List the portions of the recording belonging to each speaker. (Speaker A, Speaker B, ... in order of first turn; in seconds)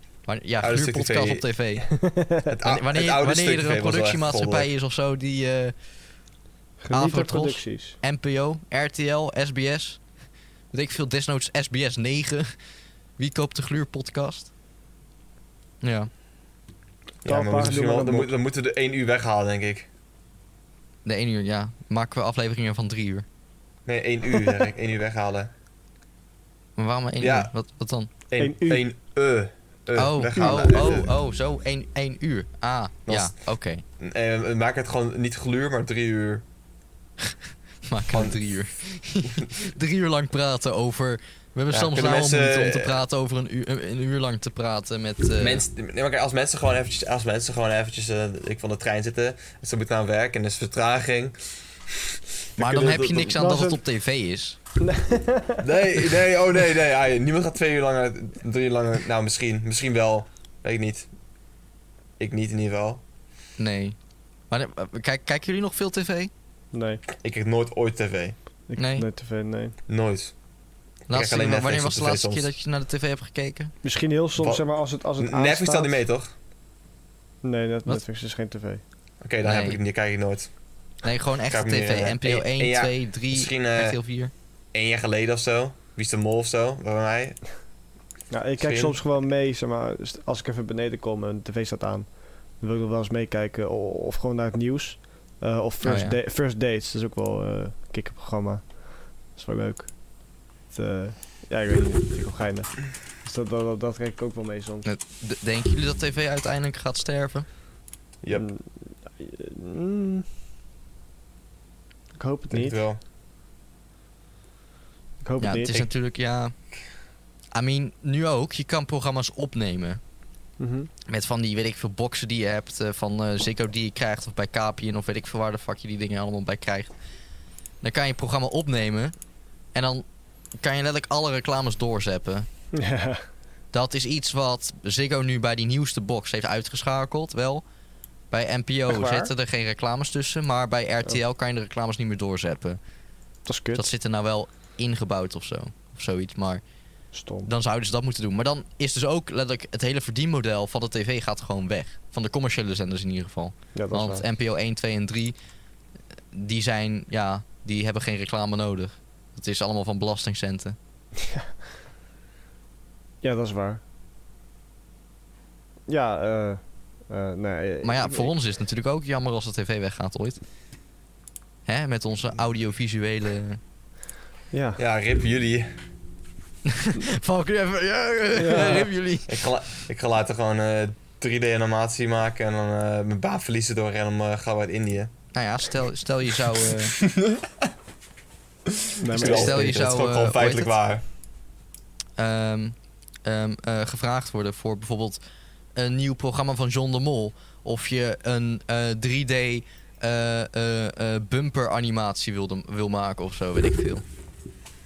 Speaker A: 0.3-1.9, 2.6-5.7, 6.9-10.0, 10.7-12.5, 13.2-14.5, 15.8-16.1, 21.0-23.2, 26.8-28.1, 29.9-33.8, 37.9-45.6, 52.6-54.6, 63.6-64.0, 64.5-66.3, 68.8-69.1, 71.1-73.7, 79.4-79.8, 81.0-84.3, 95.8-96.2, 104.8-107.5, 115.4-116.5, 117.5-120.0, 121.1-126.9, 127.8-129.1, 129.7-130.0, 130.6-132.5, 133.7-137.6, 138.3-142.8, 143.7-146.6, 147.4-155.3, 156.3-160.8, 167.8-170.4, 171.7-173.6, 176.7-179.5, 185.3-187.0, 189.2-190.8, 192.2-195.2, 195.8-204.0
Speaker B: 0.6-1.5, 2.5-4.7, 17.2-19.9, 23.9-25.5, 27.2-27.5, 28.3-31.1, 33.1-33.3, 34.0-36.4, 38.1-38.4, 41.7-43.0, 45.4-53.4, 55.6-61.1, 62.2-63.0, 67.2-68.4, 69.9-70.3, 71.1-72.5, 74.4-74.6, 75.2-76.3, 79.2-80.5, 81.5-84.0, 84.7-87.4, 88.6-89.0, 112.5-113.0, 174.8-175.8, 179.3-185.1, 186.7-187.6, 189.0-191.0
Speaker C: 2.0-2.5, 6.8-8.0, 17.2-18.4, 28.4-28.8, 30.4-30.6, 53.4-53.8, 54.8-55.6, 66.7-67.0, 68.7-69.7, 73.8-76.0, 77.4-78.8, 88.3-104.8, 108.3-110.3, 112.1-112.8, 115.2-115.8, 120.6-120.9, 132.7-133.2, 138.9-139.3, 143.4-143.9, 147.1-147.5, 153.7-154.2, 163.2-163.8, 165.9-168.3, 174.5-174.8, 178.3-178.9, 189.0-189.8